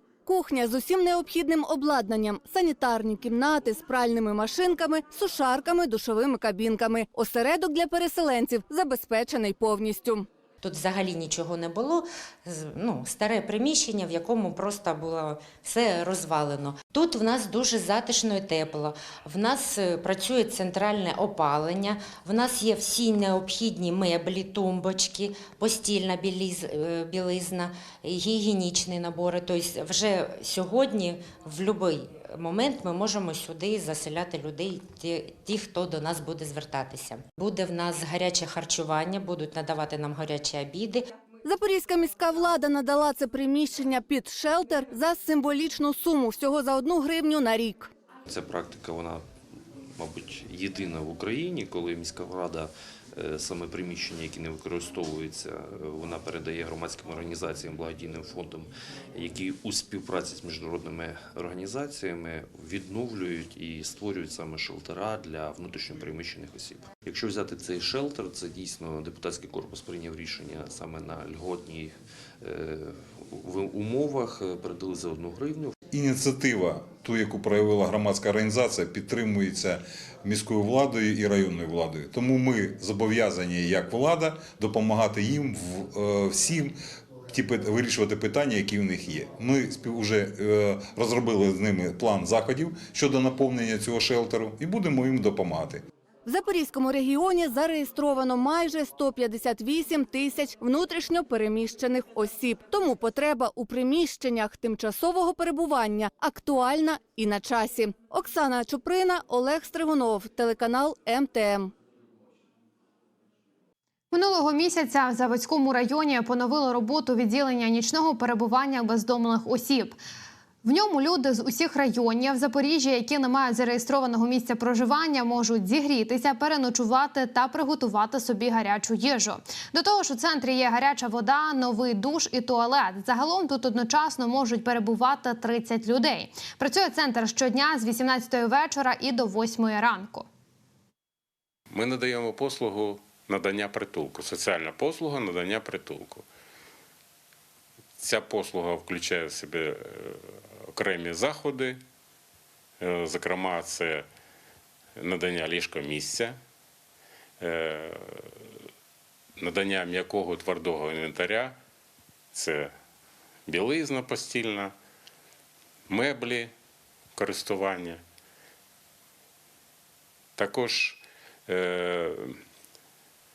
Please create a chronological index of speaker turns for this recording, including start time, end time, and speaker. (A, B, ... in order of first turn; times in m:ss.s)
0:00.2-0:10.3 A
0:10.6-0:41.0 B
0:41.4-0:47.9 A
0:48.3-0:49.2 C
0:50.0-1:11.9 C
1:12.4-1:15.7 C
1:15.9-1:26.8 D
1:27.3-1:35.8 D
1:36.2-1:51.7 A
1:54.1-2:00.0 E
2:00.6-2:20.2 E
2:21.7-2:26.2 F
2:28.0-2:31.8 F
2:32.8-2:34.0 F
2:35.0-2:36.4 F
2:37.4-2:38.3 F
2:39.4-2:41.6 F
2:42.3-2:42.7 F
2:43.5-2:44.7 F
2:45.9-2:46.5 F
2:47.2-2:48.0 F
2:50.4-2:52.4 F